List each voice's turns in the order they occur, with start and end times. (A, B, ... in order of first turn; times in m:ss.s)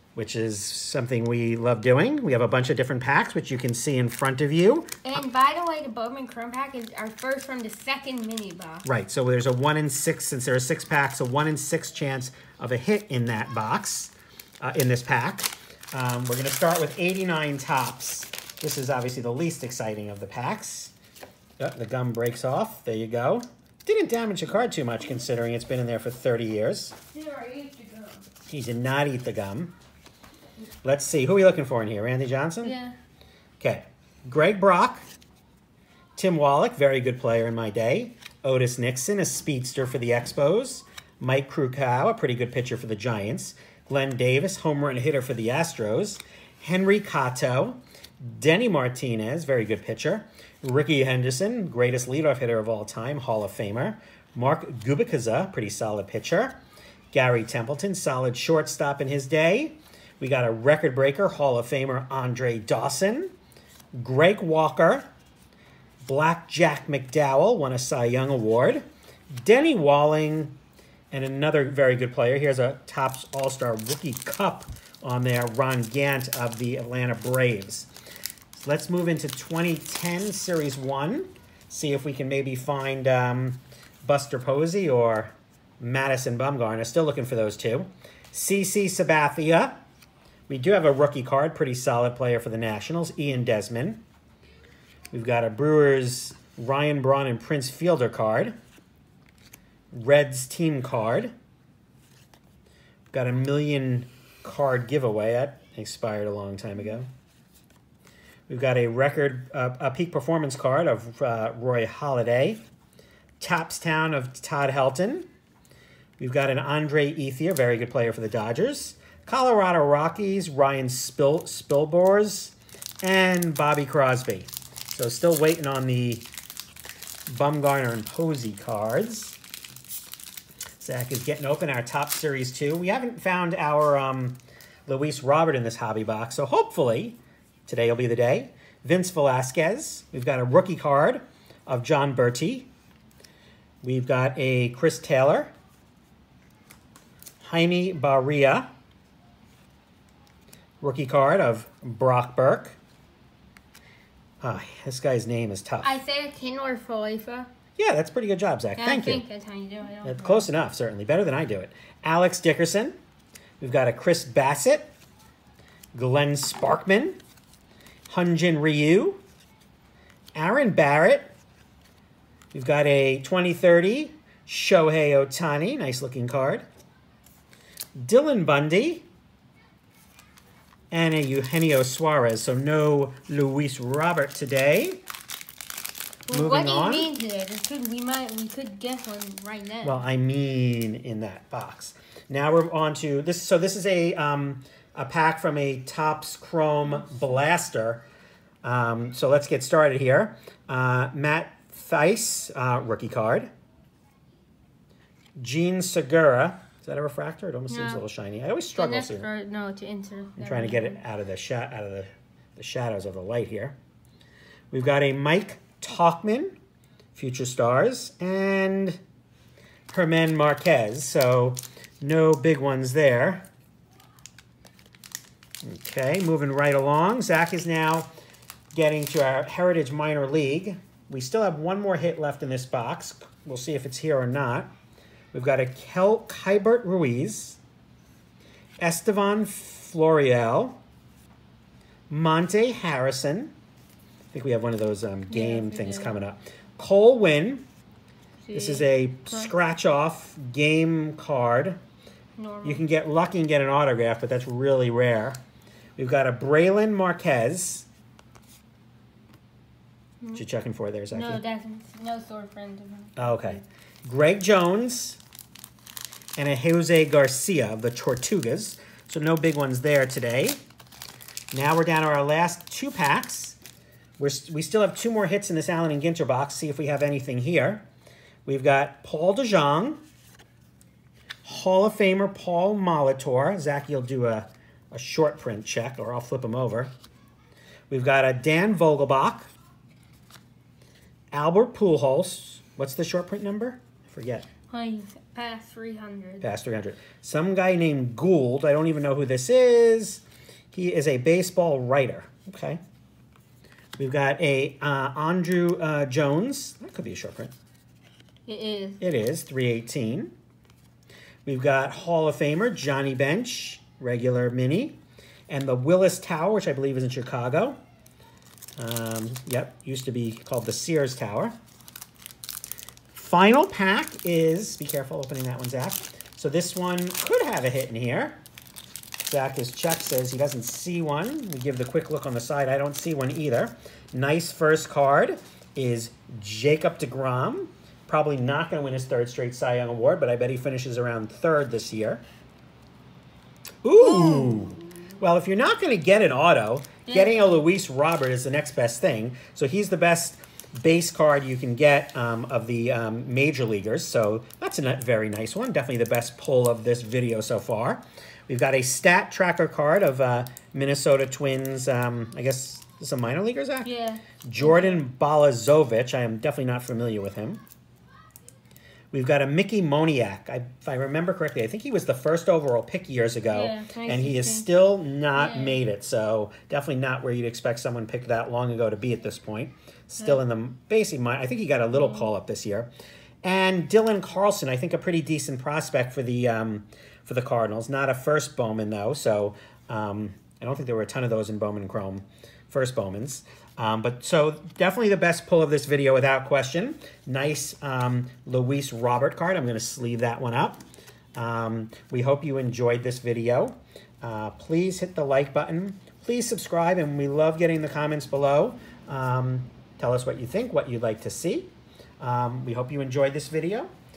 0:00.2-0:05.0 A
0:05.0-0:08.8 B
0:08.8-0:20.9 A
0:21.6-0:27.0 A
0:27.1-0:28.2 B
0:28.5-0:29.8 A
0:30.8-0:32.8 A
0:32.6-0:33.0 B
0:33.6-0:35.0 A
0:36.2-0:56.6 A
0:57.1-1:03.3 A
1:03.9-1:05.1 A
1:06.0-1:08.8 A
1:09.4-1:10.6 A
1:11.1-1:17.9 A
1:18.5-1:29.8 A
1:30.5-1:34.0 A
1:35.1-1:38.6 A
1:39.9-1:41.3 A
1:43.1-1:47.1 A
1:48.5-1:52.6 A
1:53.4-1:55.3 A
1:56.2-2:06.3 A
2:07.3-2:09.4 A
2:10.8-2:22.7 A
2:23.8-2:25.5 A
2:27.4-2:28.7 A
2:30.8-2:32.8 A
2:34.4-2:36.0 A
2:35.8-2:37.5 B
2:37.8-2:39.2 A
2:38.8-2:40.5 B
2:40.0-2:43.0 A
2:43.6-2:44.9 A
2:45.9-2:47.2 A
2:48.1-2:49.2 A
2:50.4-2:51.3 A
2:52.5-2:56.7 A
2:58.0-2:59.1 A
3:00.9-3:05.0 A
3:06.3-3:10.0 B
3:06.3-3:07.1 A
3:09.8-3:18.1 A
3:18.6-3:23.5 A
3:25.4-3:29.3 A
3:27.7-3:28.0 B
3:28.8-3:31.0 B
3:30.4-3:33.8 A
3:34.7-3:36.6 A
3:37.1-3:39.0 A
3:39.9-3:43.5 A
3:45.6-3:48.1 A
3:48.7-3:54.7 A
3:55.3-3:57.6 A
3:58.8-4:00.8 A
4:02.1-4:03.5 A
4:04.3-4:07.7 A
4:05.3-4:06.2 B
4:08.4-4:09.5 B
4:08.5-4:11.8 A
4:12.4-4:12.8 B
4:12.6-4:15.4 A
4:16.0-4:17.9 A
4:20.3-4:21.4 A
4:21.1-4:23.6 B
4:23.2-4:25.2 A
4:26.4-4:30.6 A
4:31.5-4:33.6 A
4:34.2-4:37.8 A
4:38.5-4:40.0 A
4:41.4-4:46.9 A
4:47.9-4:49.5 A
4:51.3-4:54.5 A
4:54.7-4:56.5 B
4:56.4-5:02.8 A
5:04.0-5:07.5 A
5:08.5-5:09.0 B
5:09.0-5:10.3 A
5:11.5-5:15.0 A
5:15.5-5:17.8 A
5:18.8-5:21.6 A
5:23.1-5:28.4 A
5:29.2-5:42.2 A
5:43.8-6:03.9 A
5:44.0-5:44.9 B
5:47.1-5:47.6 B
6:03.8-6:05.0 B
6:04.4-6:07.6 A
6:09.1-6:22.9 A
6:13.5-6:14.7 B
6:15.4-6:15.8 B
6:21.9-6:22.3 B
6:23.4-6:40.8 A
6:41.4-6:53.9 A